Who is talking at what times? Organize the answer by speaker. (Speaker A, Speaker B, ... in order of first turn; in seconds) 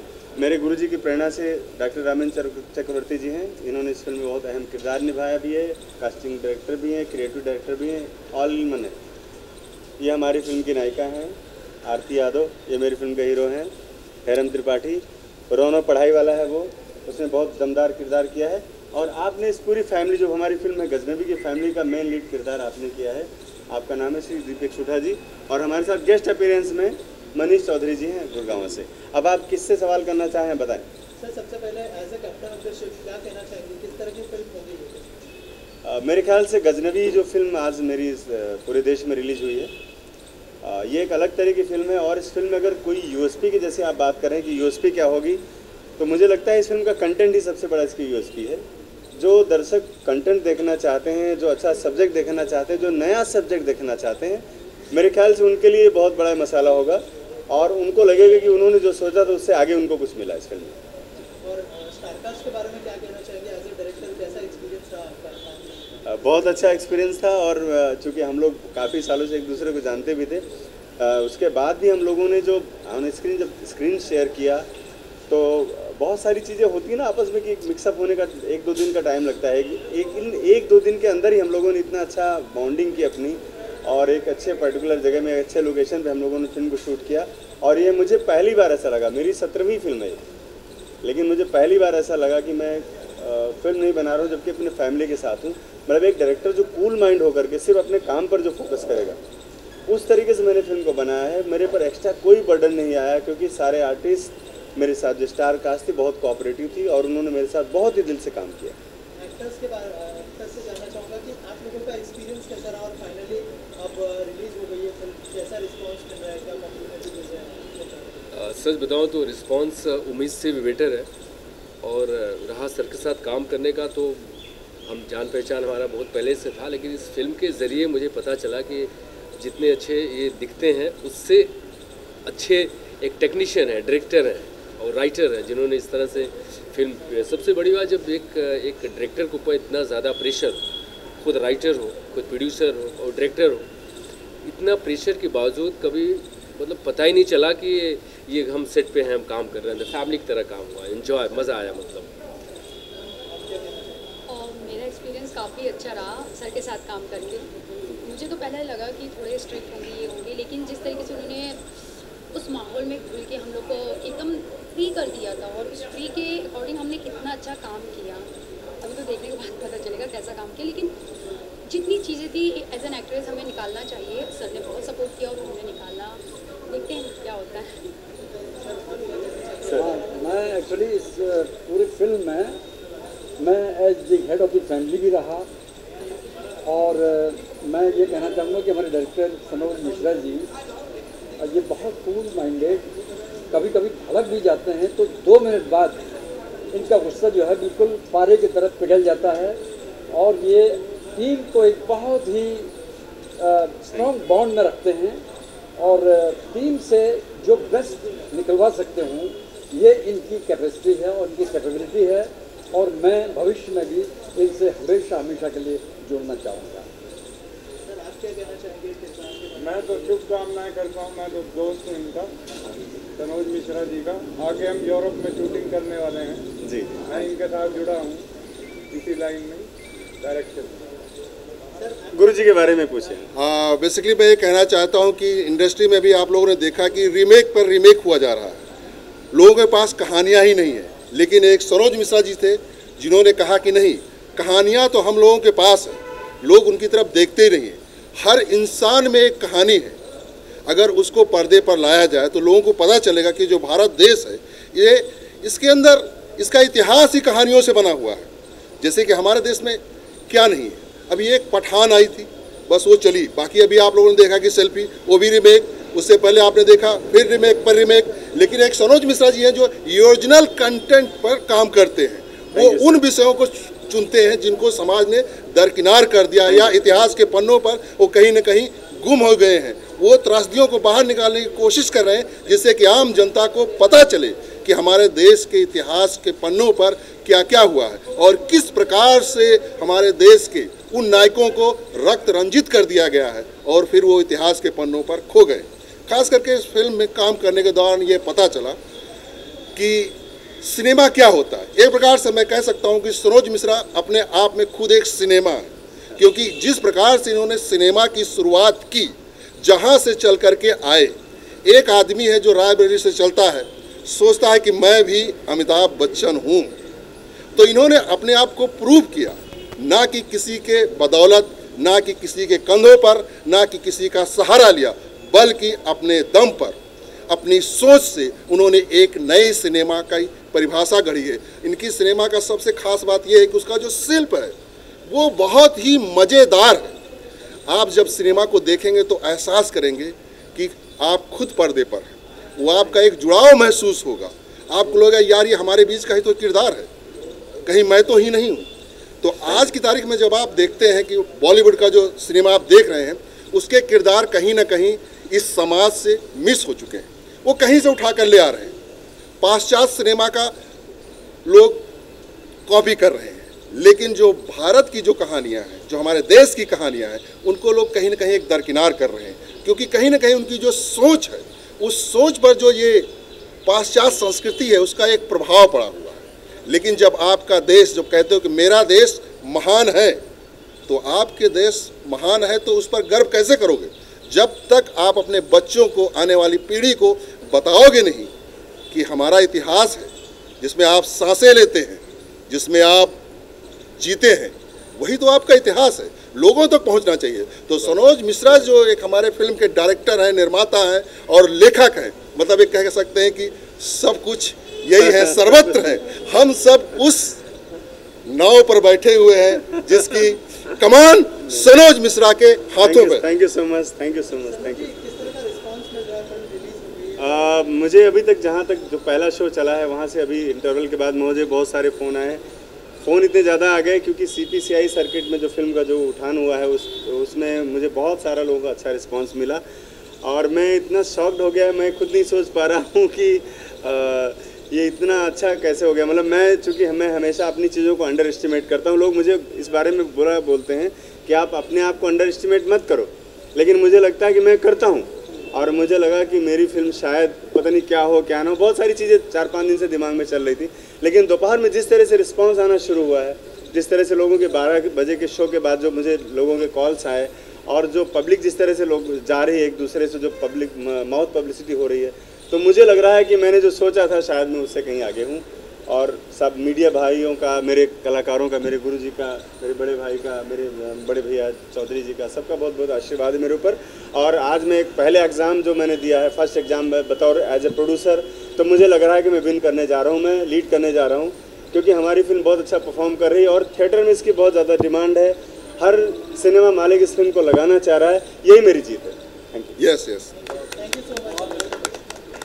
Speaker A: 0.4-8.9, 10.0-13.7, 14.2-30.9, 35.9-39.7, 40.6-45.4, 46.0-48.6, 49.1-60.8, 66.1-70.4, 71.0-74.7, 75.3-90.2, 91.0-99.2, 99.9-108.8, 226.6-227.3, 232.1-233.3, 272.5-272.9, 405.0-406.0, 412.8-414.9, 417.2-422.4, 423.0-429.6, 430.2-489.8
Speaker B: 31.2-35.1, 61.4-65.8, 109.1-118.2, 153.3-154.1, 178.3-179.9, 217.8-220.1, 231.8-232.5, 414.4-417.5, 490.4-492.1
Speaker C: 118.3-121.1, 121.8-124.3, 124.8-131.5, 132.2-140.6, 141.2-143.6, 144.4-152.1
Speaker D: 154.3-157.5, 158.0-161.6, 162.3-168.3, 168.8-170.9, 171.7-177.9
Speaker E: 179.7-182.6, 183.4-185.5, 186.6-190.5, 191.4-192.9, 193.5-196.0, 196.7-199.6, 200.1-202.7, 203.4-205.2, 205.8-216.9
Speaker F: 219.6-222.3, 223.2-226.5, 227.0-228.2, 228.9-229.7, 230.2-230.9
Speaker G: 233.3-238.6, 239.3-250.0, 250.7-258.3, 258.8-298.8, 299.7-316.8, 317.5-326.8, 327.3-334.5, 335.1-337.0, 337.7-346.9, 347.6-348.7, 349.2-358.7, 359.4-360.5, 361.4-361.9, 362.7-373.1, 373.6-380.2, 380.9-388.3, 388.9-393.2, 394.0-407.4, 408.2-413.2, 489.8-490.3